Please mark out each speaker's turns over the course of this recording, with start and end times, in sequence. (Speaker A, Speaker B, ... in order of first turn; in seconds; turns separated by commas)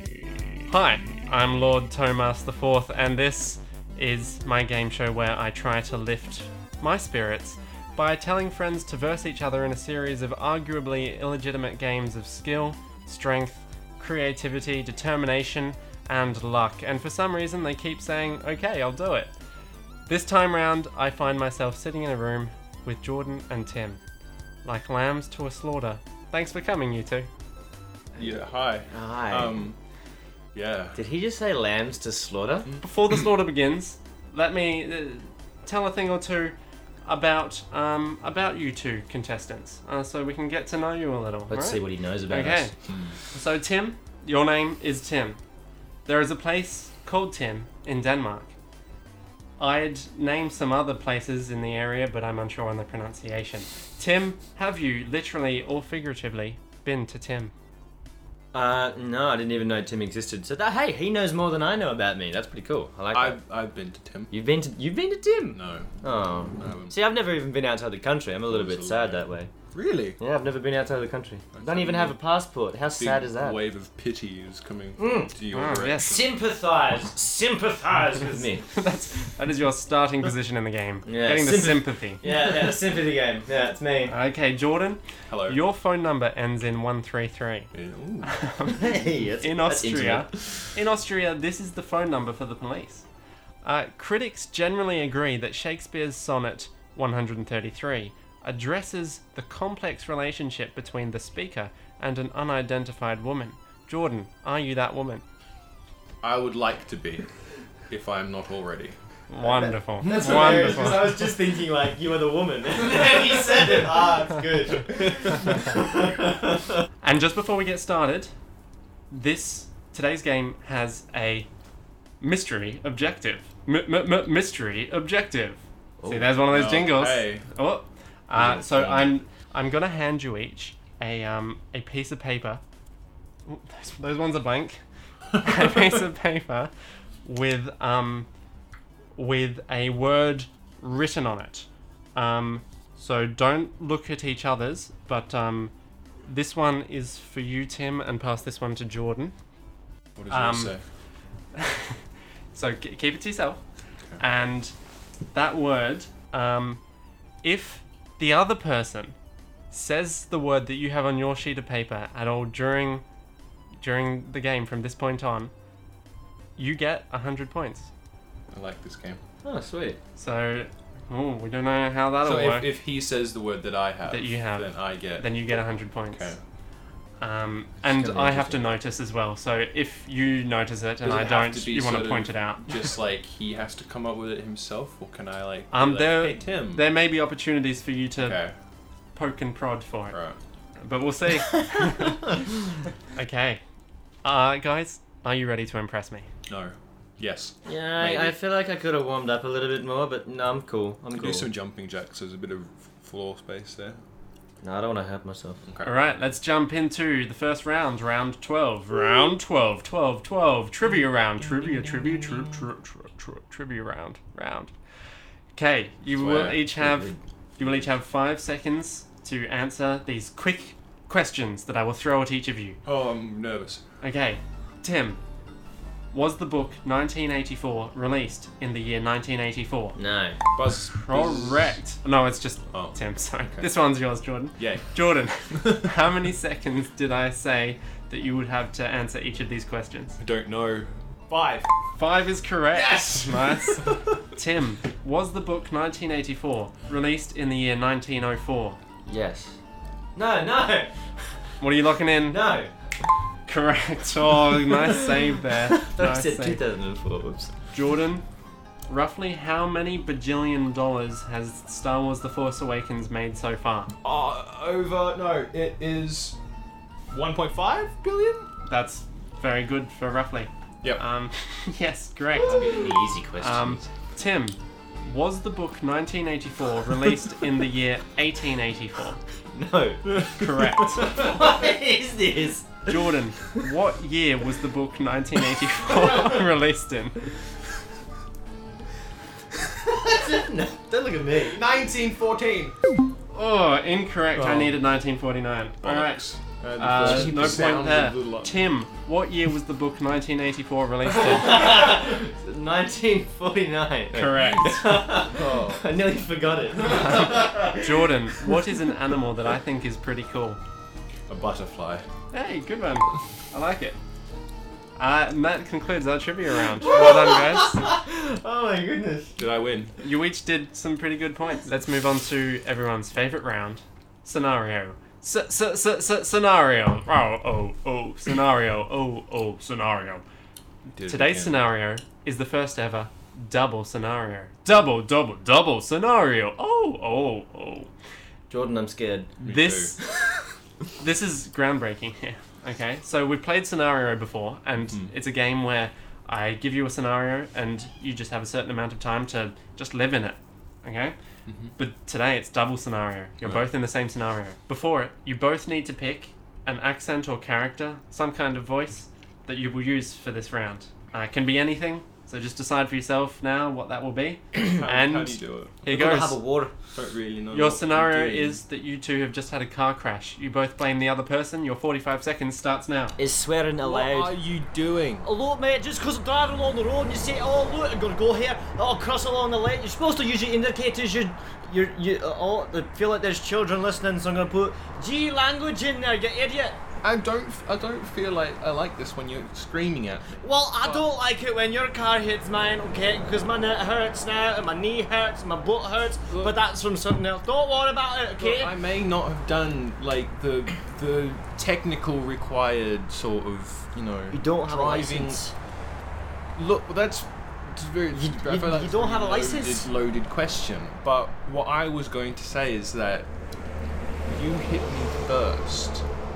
Speaker A: 0.7-19.3, Speaker A: 20.1-24.0, Speaker A: 24.6-27.3, Speaker B: 28.2-29.8, Speaker C: 28.9-29.6, Speaker B: 30.5-31.0, Speaker C: 31.0-32.7, Speaker B: 32.6-33.2, Speaker A: 32.8-36.5, Speaker A: 37.1-42.7, Speaker C: 41.5-42.7, Speaker B: 42.9-43.2, Speaker A: 43.3-45.4, Speaker A: 46.1-48.5, Speaker A: 49.6-57.5, Speaker C: 58.5-63.4, Speaker B: 63.1-64.3, Speaker C: 64.3-69.5, Speaker B: 65.5-65.9, Speaker B: 66.6-67.0, Speaker B: 68.5-70.2, Speaker C: 70.2-73.6, Speaker B: 71.5-72.2, Speaker B: 73.0-76.3, Speaker C: 75.0-75.3, Speaker A: 75.5-76.2, Speaker C: 76.1-78.7, Speaker A: 78.7-82.3, Speaker C: 81.1-84.1, Speaker A: 84.1-87.7, Speaker B: 85.3-85.6, Speaker B: 87.7-88.3, Speaker A: 88.2-93.0, Speaker C: 88.8-90.7, Speaker A: 93.6-105.2, Speaker B: 106.2-107.3, Speaker B: 107.9-109.0, Speaker A: 109.3-111.2, Speaker C: 109.4-116.6, Speaker B: 110.0-111.1, Speaker A: 117.0-118.3, Speaker A: 119.1-121.5, Speaker A: 122.2-132.6, Speaker C: 126.0-126.3, Speaker B: 126.5-127.5, Speaker B: 128.3-129.1, Speaker A: 133.5-134.8, Speaker A: 135.3-136.7, Speaker A: 137.2-138.3, Speaker A: 139.2-145.7, Speaker A: 146.3-149.3, Speaker B: 150.2-150.8, Speaker A: 150.3-150.7, Speaker A: 151.6-152.0, Speaker A: 152.5-153.6, Speaker A: 154.2-154.7, Speaker A: 155.3-156.8, Speaker A: 157.4-159.2, Speaker A: 159.7-163.0, Speaker A: 163.8-165.5, Speaker A: 166.6-167.9, Speaker B: 168.5-169.2, Speaker C: 169.4-170.0, Speaker A: 170.2-172.7, Speaker B: 172.2-175.3, Speaker A: 174.1-176.3, Speaker B: 176.1-176.4, Speaker A: 177.2-182.8, Speaker B: 177.8-178.7, Speaker B: 181.0-186.8, Speaker A: 185.7-188.4, Speaker B: 188.2-188.5, Speaker A: 189.2-190.2, Speaker B: 190.1-190.4, Speaker A: 190.8-192.4, Speaker A: 193.1-193.6, Speaker A: 194.2-196.3, Speaker B: 196.5-198.4, Speaker C: 197.7-201.5, Speaker B: 201.1-204.0, Speaker C: 204.6-205.6, Speaker B: 205.6-205.9, Speaker A: 205.8-214.7, Speaker B: 211.4-212.7, Speaker A: 215.6-222.8, Speaker B: 216.1-217.2, Speaker B: 222.8-223.8, Speaker A: 224.0-225.2, Speaker A: 226.1-230.0, Speaker C: 230.0-230.4, Speaker B: 230.6-231.8, Speaker A: 230.9-240.2, Speaker B: 232.7-233.0, Speaker B: 234.6-235.9, Speaker B: 240.2-241.7, Speaker A: 242.0-248.8, Speaker B: 242.7-243.8, Speaker C: 249.1-249.6, Speaker C: 250.2-250.9, Speaker A: 251.6-252.4, Speaker C: 252.3-252.7, Speaker A: 253.5-256.6, Speaker C: 255.7-257.5, Speaker A: 257.7-258.2, Speaker A: 258.9-263.9, Speaker B: 264.0-266.4, Speaker B: 267.1-268.5, Speaker A: 268.7-272.7, Speaker C: 272.4-273.9, Speaker B: 272.4-273.1, Speaker A: 273.4-279.2, Speaker C: 279.5-283.0, Speaker A: 280.3-281.2, Speaker A: 282.9-287.3, Speaker C: 285.9-286.4, Speaker C: 289.9-291.6, Speaker B: 291.5-292.8, Speaker A: 293.3-296.2, Speaker B: 294.3-294.8, Speaker B: 295.8-298.7, Speaker A: 296.8-301.6, Speaker C: 297.0-297.8, Speaker C: 301.1-308.6, Speaker A: 304.1-305.0, Speaker B: 304.3-305.8, Speaker A: 306.9-310.6, Speaker B: 311.3-312.1, Speaker A: 312.3-314.0, Speaker A: 315.0-317.8, Speaker C: 316.8-319.4, Speaker B: 319.4-320.0, Speaker A: 320.0-330.2, Speaker B: 331.0-331.6, Speaker A: 331.1-337.9, Speaker C: 338.5-339.3, Speaker B: 339.4-340.0, Speaker A: 339.4-340.0, Speaker A: 341.0-351.2, Speaker B: 344.8-345.1, Speaker B: 351.5-351.7, Speaker A: 351.8-366.4, Speaker B: 364.6-365.8, Speaker C: 365.9-366.7, Speaker B: 366.9-368.6, Speaker A: 367.5-373.2, Speaker C: 373.2-374.4, Speaker B: 373.8-375.3, Speaker C: 375.2-386.8, Speaker B: 387.0-391.1, Speaker C: 390.4-398.7, Speaker B: 396.3-396.6, Speaker B: 398.4-405.4, Speaker C: 404.3-405.5, Speaker B: 406.6-413.3, Speaker C: 408.1-409.9, Speaker B: 414.2-416.1